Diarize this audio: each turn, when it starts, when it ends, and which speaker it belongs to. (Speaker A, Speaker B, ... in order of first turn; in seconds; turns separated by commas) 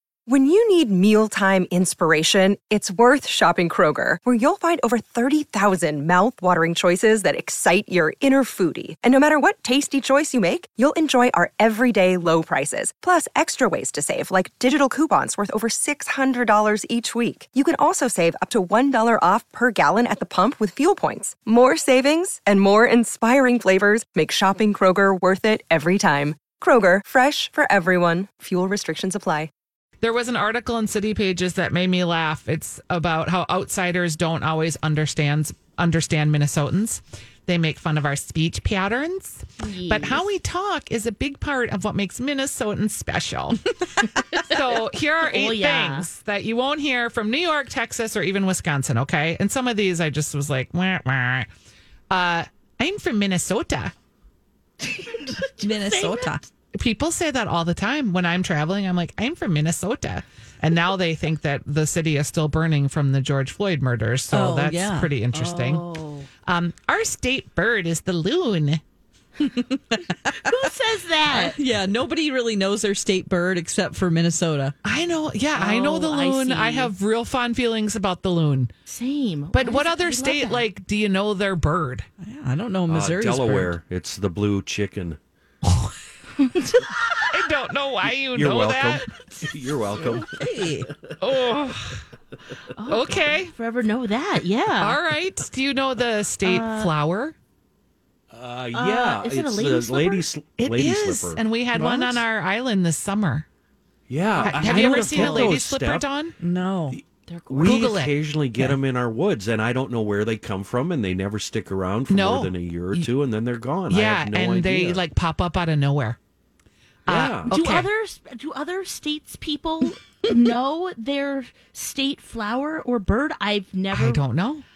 Speaker A: 0.3-29.5, Speaker B: 30.0-43.6, Speaker C: 39.6-40.3, Speaker B: 44.5-51.5, Speaker C: 45.2-46.1, Speaker B: 52.1-53.9, Speaker C: 54.8-56.3, Speaker D: 55.6-56.5, Speaker B: 56.7-65.8, Speaker D: 64.3-65.8, Speaker C: 65.8-66.3, Speaker B: 66.4-68.8, Speaker D: 69.4-70.6, Speaker C: 70.3-71.6, Speaker D: 71.3-74.7, Speaker B: 74.8-78.7, Speaker C: 75.5-76.9, Speaker C: 78.9-80.7, Speaker B: 79.5-82.0, Speaker D: 82.2-83.7, Speaker E: 82.9-85.2, Speaker B: 85.6-85.9, Speaker C: 86.4-87.2, Speaker B: 87.3-89.0, Speaker E: 88.3-90.9, Speaker D: 90.2-90.9, Speaker B: 91.2-92.0, Speaker C: 92.8-95.0, Speaker B: 92.9-93.5, Speaker B: 94.8-97.3, Speaker C: 96.4-96.9, Speaker E: 98.3-102.2, Speaker C: 98.7-100.2, Speaker B: 100.6-103.5, Speaker E: 104.1-106.1, Speaker B: 104.4-106.3, Speaker D: 104.5-105.5, Speaker D: 106.4-107.0, Speaker E: 106.9-115.0, Speaker C: 107.3-107.8, Speaker B: 107.6-108.7, Speaker B: 112.1-113.1, Speaker B: 113.9-116.2, Speaker B: 117.0-117.9, Speaker E: 117.1-117.6, Speaker C: 117.4-124.2, Speaker B: 123.9-124.6